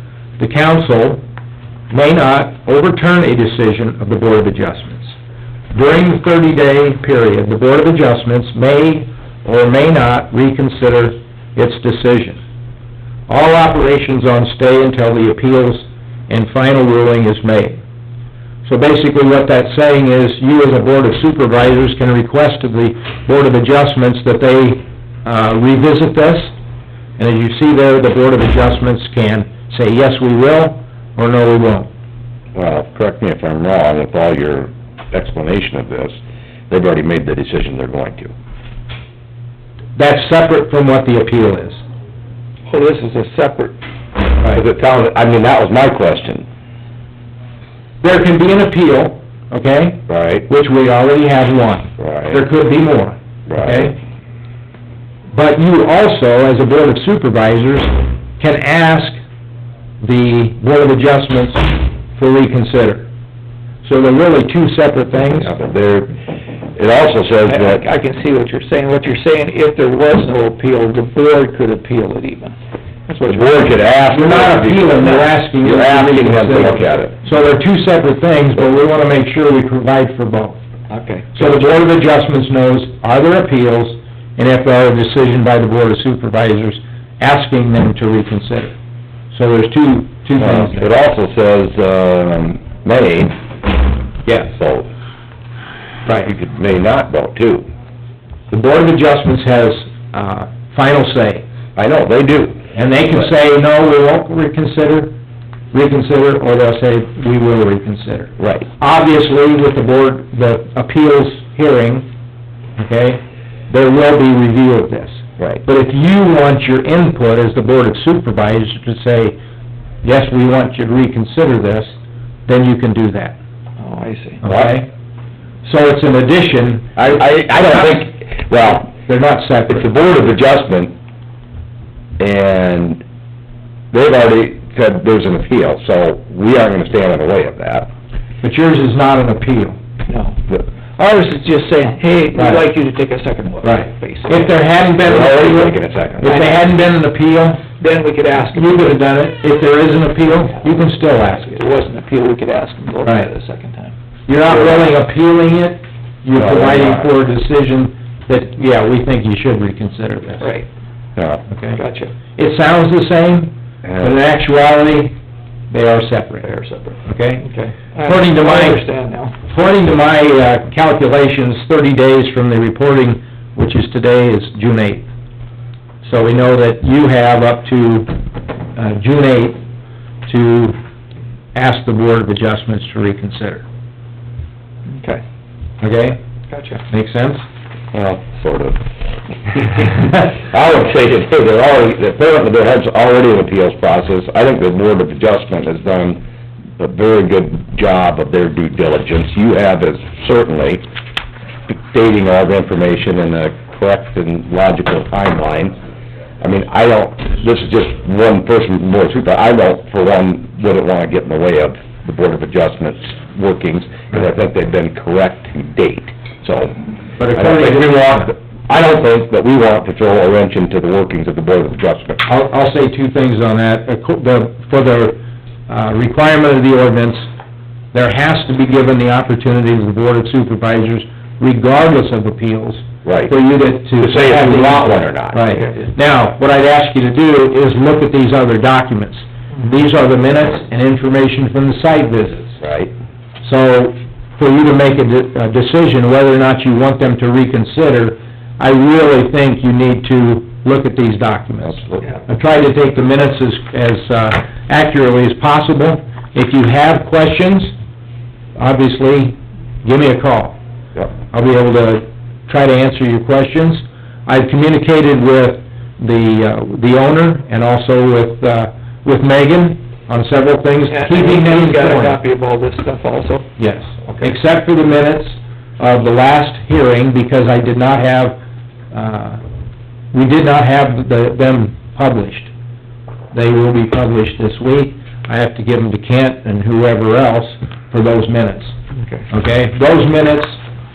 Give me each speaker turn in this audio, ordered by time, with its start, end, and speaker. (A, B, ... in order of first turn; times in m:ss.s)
0:00.4-0:01.2 A
0:01.9-0:05.2 A
0:05.7-0:12.4 A
0:13.3-0:17.8 A
0:18.6-0:26.5 A
0:27.2-0:31.9 A
0:32.6-0:36.2 B
0:36.7-0:38.3 B
0:40.0-0:41.8 A
0:42.7-0:43.8 C
0:44.5-0:46.5 B
0:48.0-0:54.0 A
0:50.1-0:50.5 B
0:52.0-0:52.4 B
0:53.5-0:53.9 B
0:55.3-0:59.2 A
1:00.0-1:03.1 A
1:03.8-1:05.5 A
1:05.4-1:06.2 B
1:06.8-1:07.8 B
1:07.5-1:12.6 C
1:13.1-1:13.8 C
1:13.3-1:17.1 B
1:14.1-1:20.6 A
1:15.1-1:15.3 C
1:20.9-1:21.7 C
1:21.3-1:28.8 A
1:29.3-1:30.9 A
1:30.4-1:33.8 B
1:34.2-1:34.9 B
1:36.1-1:37.7 B
1:38.5-1:41.4 A
1:41.8-1:42.7 B
1:42.7-1:45.2 A
1:45.7-1:52.1 A
1:48.4-1:48.7 B
1:52.8-1:59.4 A
1:55.4-1:55.6 B
2:00.0-2:02.0 A
2:02.5-2:03.4 A
2:03.8-2:04.4 C
2:04.4-2:04.9 A
2:04.4-2:04.8 B
2:05.6-2:07.0 A
2:07.0-2:08.9 B
2:08.9-2:09.9 A
2:09.7-2:10.9 B
2:12.2-2:13.0 B
2:13.9-2:17.9 B
2:18.4-2:19.8 A
2:20.1-2:24.5 C
2:22.3-2:22.6 A
2:23.6-2:27.6 A
2:25.0-2:26.4 B
2:26.2-2:26.7 C
2:27.8-2:29.0 C
2:28.5-2:31.6 A
2:31.4-2:33.9 C
2:33.0-2:33.3 A
2:34.3-2:40.5 A
2:36.3-2:37.1 B
2:40.4-2:40.7 C
2:41.2-2:41.5 B
2:41.5-2:41.8 A
2:41.8-2:42.1 C
2:42.4-2:45.2 A
2:43.8-2:44.1 B
2:45.7-2:46.5 A
2:46.4-2:49.4 C
2:47.0-2:47.5 A
2:48.0-2:48.8 A
2:49.5-2:55.1 A
2:56.0-2:58.2 A
2:58.8-2:59.6 A
3:00.2-3:00.8 A
3:01.5-3:03.6 A
3:04.9-3:05.2 C
3:05.8-3:06.2 A
3:06.5-3:06.8 C
3:06.9-3:07.4 A
3:07.9-3:08.8 B
3:09.5-3:16.2 B
3:16.8-3:20.8 B
3:21.7-3:25.8 B
3:26.4-3:36.8 B
3:37.2-3:38.3 A
3:37.3-3:42.2 B
3:42.2-3:47.2 A
3:47.9-4:02.6 A
3:53.0-3:53.3 B
3:54.0-3:55.4 B
3:55.6-3:55.9 C
4:02.6-4:02.9 B
4:03.4-4:17.7 A
4:11.6-4:12.0 B
4:18.6-4:20.6 A
4:21.2-4:32.2 A
4:30.9-4:33.5 C
4:33.6-4:38.4 A
4:34.0-4:34.3 C
4:38.9-4:39.4 A
4:40.1-4:42.5 A
4:43.3-4:48.8 A
4:49.0-4:49.2 C
4:49.3-4:50.6 A